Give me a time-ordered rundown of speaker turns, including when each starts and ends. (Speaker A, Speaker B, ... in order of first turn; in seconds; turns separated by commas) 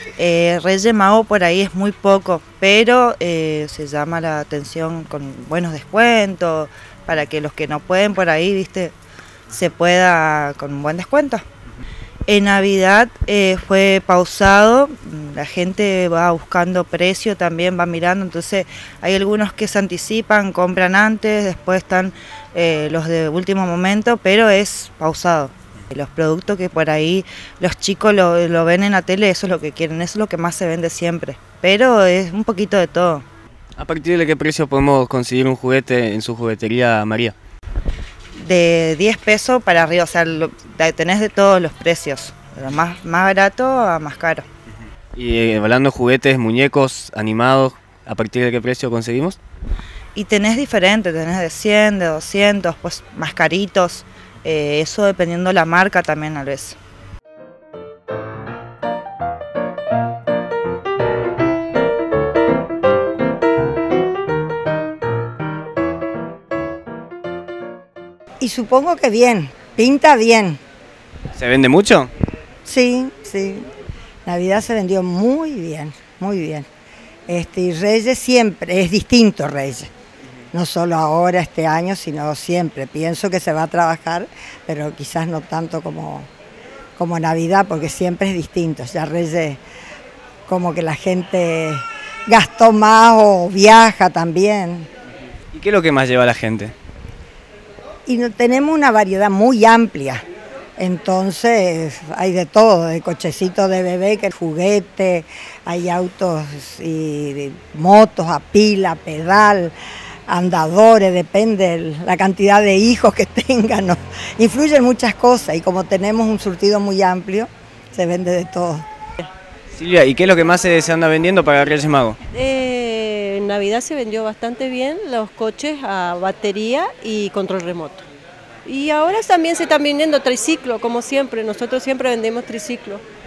Speaker A: 0.2-8.9, Speaker A: 9.5-11.4, Speaker A: 12.3-33.2, Speaker B: 33.8-37.3, Speaker A: 38.4-44.5, Speaker B: 45.1-49.4, Speaker A: 50.1-56.8, Speaker C: 68.4-70.6, Speaker B: 71.3-72.1, Speaker C: 72.6-73.7, Speaker C: 74.2-76.7, Speaker C: 77.3-79.9, Speaker C: 80.5-86.3, Speaker C: 87.0-89.6, Speaker C: 90.5-94.9, Speaker B: 95.5-96.7, Speaker C: 98.1-100.2, Speaker C: 100.8-109.7, Speaker C: 110.3-118.8, Speaker B: 119.7-122.2, Speaker D: 122.3-128.0, Speaker D: 128.6-133.0